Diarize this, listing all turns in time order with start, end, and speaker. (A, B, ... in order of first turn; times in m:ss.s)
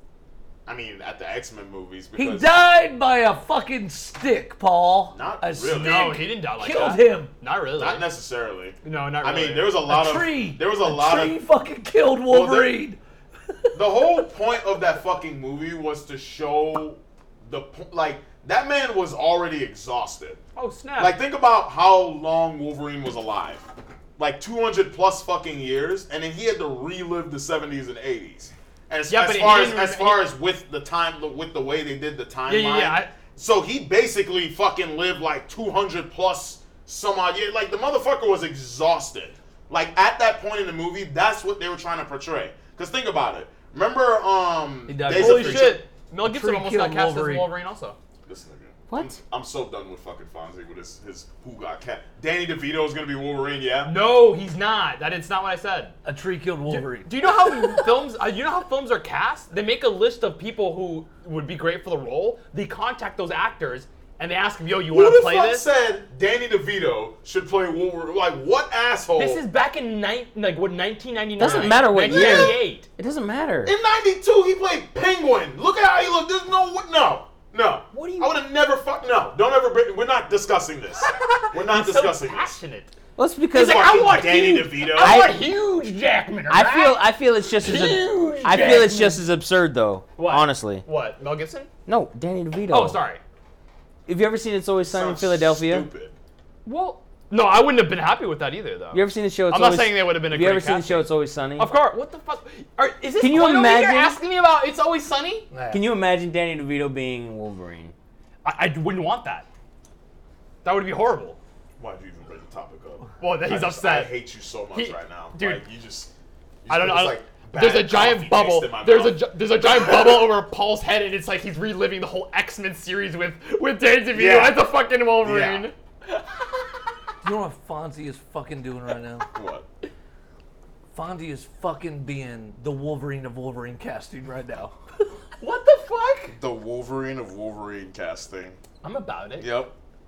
0:00.6-0:02.5 A
0:02.2-0:07.3 B
0:05.1-0:06.2 A
0:05.7-0:08.0 C
0:07.8-0:11.4 A
0:08.8-0:09.8 C
0:09.9-0:13.8 B
0:12.3-0:12.8 A
0:13.7-0:20.4 A
0:20.6-0:21.2 C
0:21.0-0:23.7 A
0:24.2-0:45.8 A
0:29.1-0:30.3 C
0:32.5-0:33.1 C
0:44.9-0:47.5 B
0:45.1-0:48.0 C
0:48.2-0:54.0 A
0:48.9-0:49.1 D
0:53.8-0:56.0 C
0:56.0-0:57.1 B
0:56.7-1:05.6 C
1:04.9-1:09.4 A
1:09.2-1:12.9 C
1:11.4-1:13.7 D
1:11.4-1:12.6 A
1:13.6-1:22.5 A
1:17.9-1:18.3 C
1:21.0-1:22.9 C
1:23.2-1:25.4 D
1:23.5-1:25.3 A
1:23.5-1:29.2 C
1:26.5-1:30.8 D
1:30.2-1:31.7 C
1:31.9-1:33.0 D
1:32.7-1:33.2 C
1:34.1-1:35.9 D
1:34.9-1:36.1 A
1:36.6-1:45.5 C
1:38.9-1:41.7 D
1:43.2-1:44.2 D
1:45.5-1:45.8 B
1:45.7-1:47.9 D
1:48.4-1:49.4 C
1:50.6-1:51.4 C
1:51.8-1:56.1 A
1:53.2-1:54.1 C
1:54.7-1:55.6 C
1:56.6-2:00.3 A
1:56.7-2:06.5 C
2:04.1-2:04.6 A
2:05.2-2:05.7 A
2:07.2-2:09.3 B
2:09.3-2:09.6 A
2:10.9-2:14.8 B
2:15.4-2:16.4 C
2:16.4-2:18.6 A
2:18.8-2:19.5 C
2:19.4-2:19.7 A